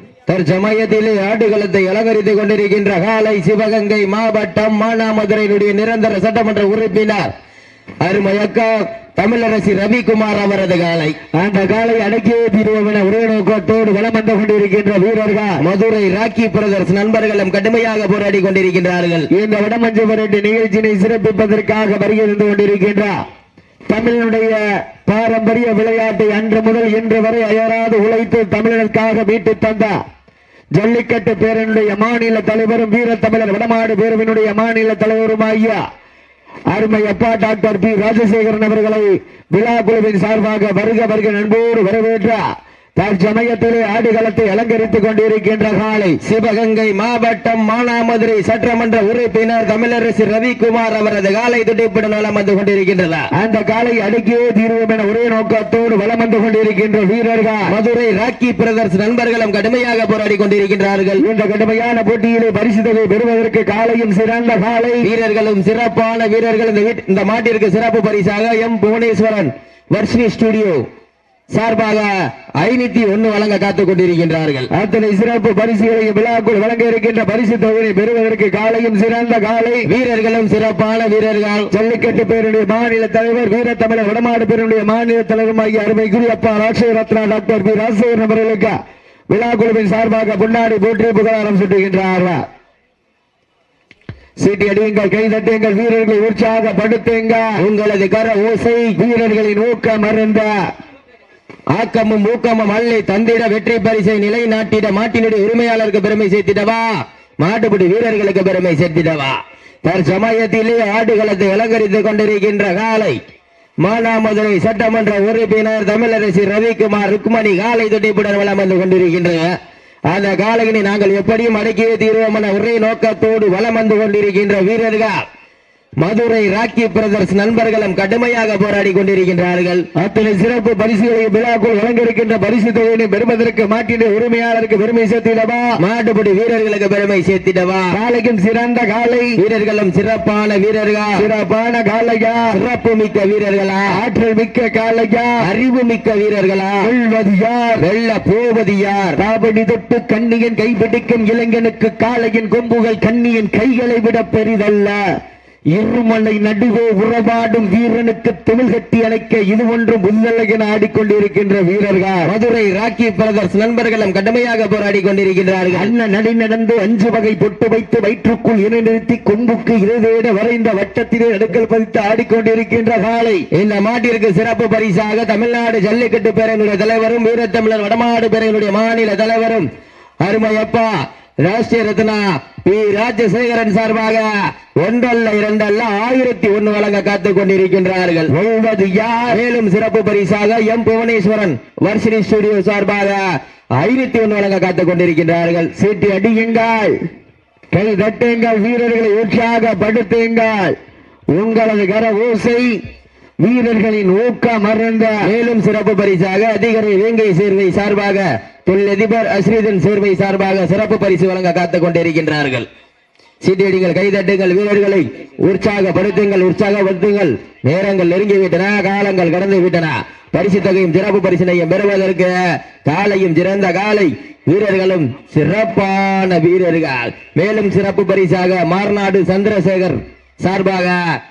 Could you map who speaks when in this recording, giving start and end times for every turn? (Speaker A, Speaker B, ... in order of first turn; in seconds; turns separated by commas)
Speaker A: 0.3-7.3, Speaker A: 8.0-11.2, Speaker B: 11.3-15.6, Speaker A: 15.6-19.3, Speaker B: 19.3-23.1, Speaker B: 23.9-30.0, Speaker B: 30.7-35.8, Speaker B: 36.7-42.4, Speaker B: 43.0-46.2, Speaker A: 46.2-53.2, Speaker B: 53.3-57.7, Speaker A: 57.7-61.2, Speaker B: 61.2-65.1, Speaker A: 65.0-70.8, Speaker A: 71.5-74.7, Speaker B: 74.7-79.9, Speaker A: 79.8-81.7, Speaker B: 81.7-88.7, Speaker B: 89.3-92.4, Speaker B: 94.4-97.6, Speaker A: 97.6-99.0, Speaker B: 99.0-100.5, Speaker A: 101.7-113.2, Speaker A: 113.8-119.5, Speaker A: 120.1-125.2, Speaker A: 126.0-129.8, Speaker B: 129.9-135.8, Speaker A: 135.8-137.9, Speaker B: 137.9-139.4, Speaker A: 139.4-141.2, Speaker B: 141.2-142.5, Speaker A: 142.5-143.9, Speaker B: 143.9-145.4, Speaker A: 145.4-146.9, Speaker B: 146.8-147.8, Speaker A: 147.8-149.2, Speaker B: 149.2-155.0, Speaker B: 155.7-162.3, Speaker A: 162.2-165.9, Speaker B: 165.7-173.4, Speaker A: 173.5-179.7, Speaker A: 180.2-184.3, Speaker A: 184.8-188.3, Speaker B: 188.3-189.4, Speaker A: 189.3-193.2, Speaker A: 193.8-195.7, Speaker B: 195.7-196.9, Speaker B: 197.7-200.8, Speaker B: 201.3-202.7, Speaker B: 203.4-205.3, Speaker A: 205.2-212.7, Speaker A: 213.4-231.0